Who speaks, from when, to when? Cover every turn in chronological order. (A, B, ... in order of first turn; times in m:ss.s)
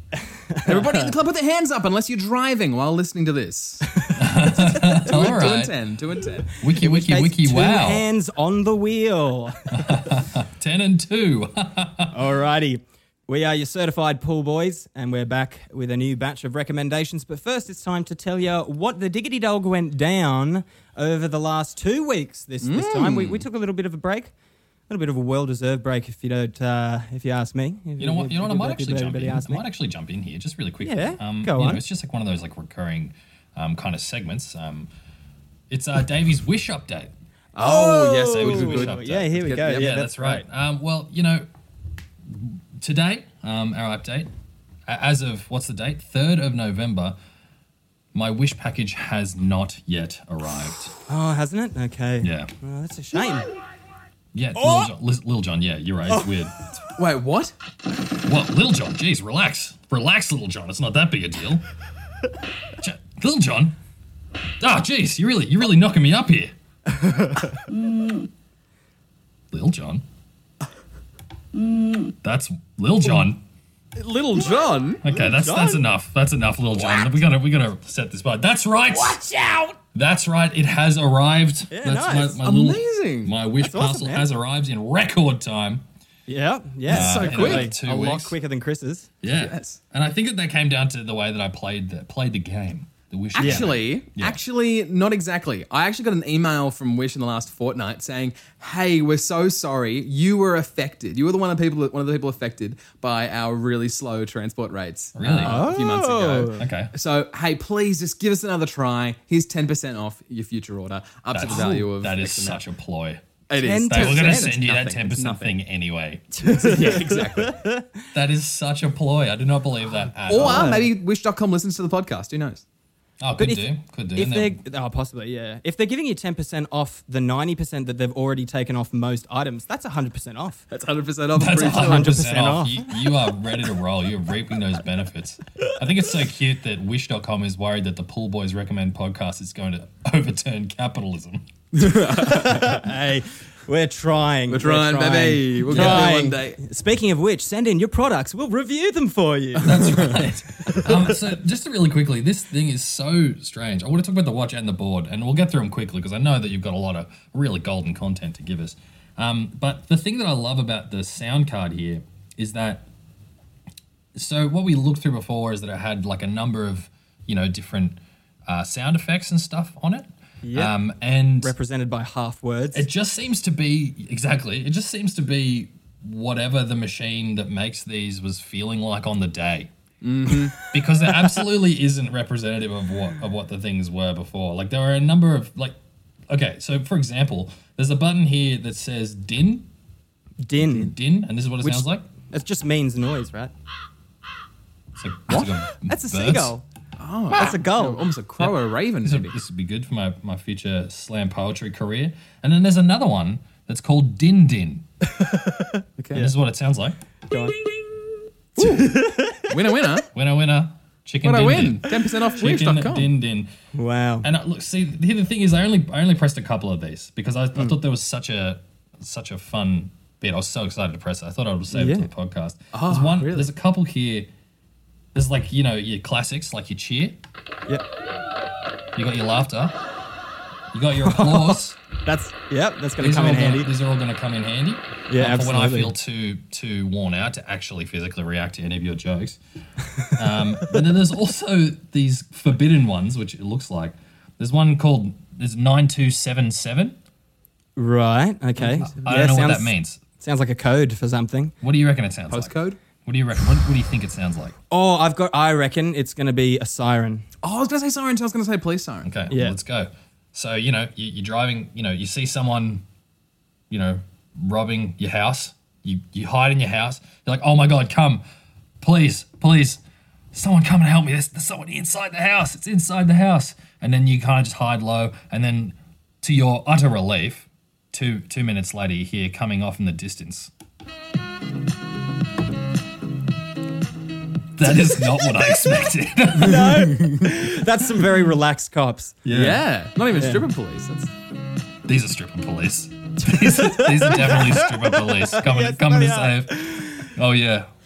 0:00.2-0:01.1 A
0:00.6-0:04.1 B
0:04.0-0:05.1 A
0:04.2-0:05.7 C
0:04.6-0:06.6 B
0:06.6-0:08.0 C
0:06.7-0:10.1 A
0:09.7-0:12.1 C
0:12.1-0:24.3 A
0:22.6-0:23.4 B
0:24.9-0:29.6 A
0:28.0-0:34.9 C
0:30.8-0:31.8 A
0:35.7-0:37.1 C
0:37.5-0:39.8 B
0:37.6-0:40.4 A
0:38.3-0:41.4 C
0:42.3-0:44.3 C
0:44.9-0:47.2 C
0:48.1-0:50.9 C
0:51.1-0:53.5 A
0:52.2-0:52.5 C
0:54.3-0:56.6 C
0:54.6-0:54.9 A
0:57.0-0:57.5 B
0:58.2-1:01.6 C
1:02.8-1:03.8 C
1:04.6-1:06.5 C
1:07.0-1:07.5 A
1:09.5-1:10.0 C
1:12.2-1:13.4 C
1:14.0-1:15.0 B
1:15.0-1:19.2 C
1:15.1-1:15.8 A
1:19.9-1:25.8 C
1:21.7-1:22.4 A
1:22.4-1:23.3 B
1:23.6-1:24.3 A
1:26.3-1:29.1 A
1:26.9-1:27.7 B
1:26.9-1:28.4 C
1:29.2-1:34.4 C
1:29.3-1:29.8 B
1:33.4-1:52.6 B
1:33.4-1:33.7 A
1:45.2-1:45.6 C
1:45.4-1:46.6 A
1:46.6-1:46.9 C
1:51.3-1:53.2 C
1:51.5-1:51.8 A
1:53.5-1:55.6 B
1:53.6-1:54.6 A
1:53.9-1:56.3 C
1:56.4-1:58.0 A
1:56.4-1:57.6 B
1:58.1-2:00.8 C
2:00.3-2:02.6 B
2:00.3-2:00.9 A
2:03.2-2:04.6 C
2:03.4-2:10.6 A
2:10.7-2:12.1 B
2:11.3-2:21.5 C
2:11.6-2:12.9 A
2:21.7-2:22.8 B
2:22.1-2:29.9 A
2:24.5-2:26.6 B
2:25.7-2:26.1 C
2:29.6-2:30.3 B
2:29.6-2:42.9 C
2:44.1-2:51.5 C
2:50.4-2:50.8 A
2:51.4-2:52.9 A
2:52.7-2:59.7 C
3:00.0-3:00.6 B
3:00.6-3:05.8 C
3:06.3-3:09.7 C
3:10.4-3:10.9 A
3:10.6-3:12.1 C
3:11.6-3:13.5 A
3:15.0-3:16.5 C
3:15.3-3:15.6 B
3:15.9-3:16.6 A
3:17.0-3:19.3 B
3:17.3-3:18.0 A
3:18.4-3:24.8 C
3:25.2-3:26.3 A
3:26.0-3:26.3 B
3:26.1-3:27.0 C
3:27.3-3:27.6 A
3:28.6-3:30.1 B
3:28.6-3:29.5 A
3:30.1-3:33.5 C
3:31.2-3:33.1 B
3:33.7-3:34.3 A
3:34.2-3:44.3 C
3:41.7-3:42.1 A
3:42.7-3:43.5 B
3:45.1-3:47.2 C
3:49.0-3:49.8 C
3:50.7-3:51.8 C
3:51.0-3:53.7 A
3:53.0-3:59.4 C
3:55.1-3:55.9 A
4:00.1-4:07.0 C
4:07.8-4:11.5 A
4:08.8-4:09.3 B
4:08.8-4:10.0 C
4:11.6-4:14.6 C
4:12.3-4:12.8 B
4:14.7-4:17.2 A
4:17.4-4:19.1 B
4:19.0-4:22.8 C
4:19.3-4:19.6 A
4:23.7-4:28.2 C
4:28.8-4:29.8 C
4:30.3-4:40.5 C
4:44.6-4:47.0 C
4:46.3-4:49.2 A
4:46.6-4:47.1 B
4:49.2-4:49.6 C
4:49.3-4:51.1 B
4:50.1-4:50.4 A
4:51.8-4:57.7 C
4:53.2-4:57.1 A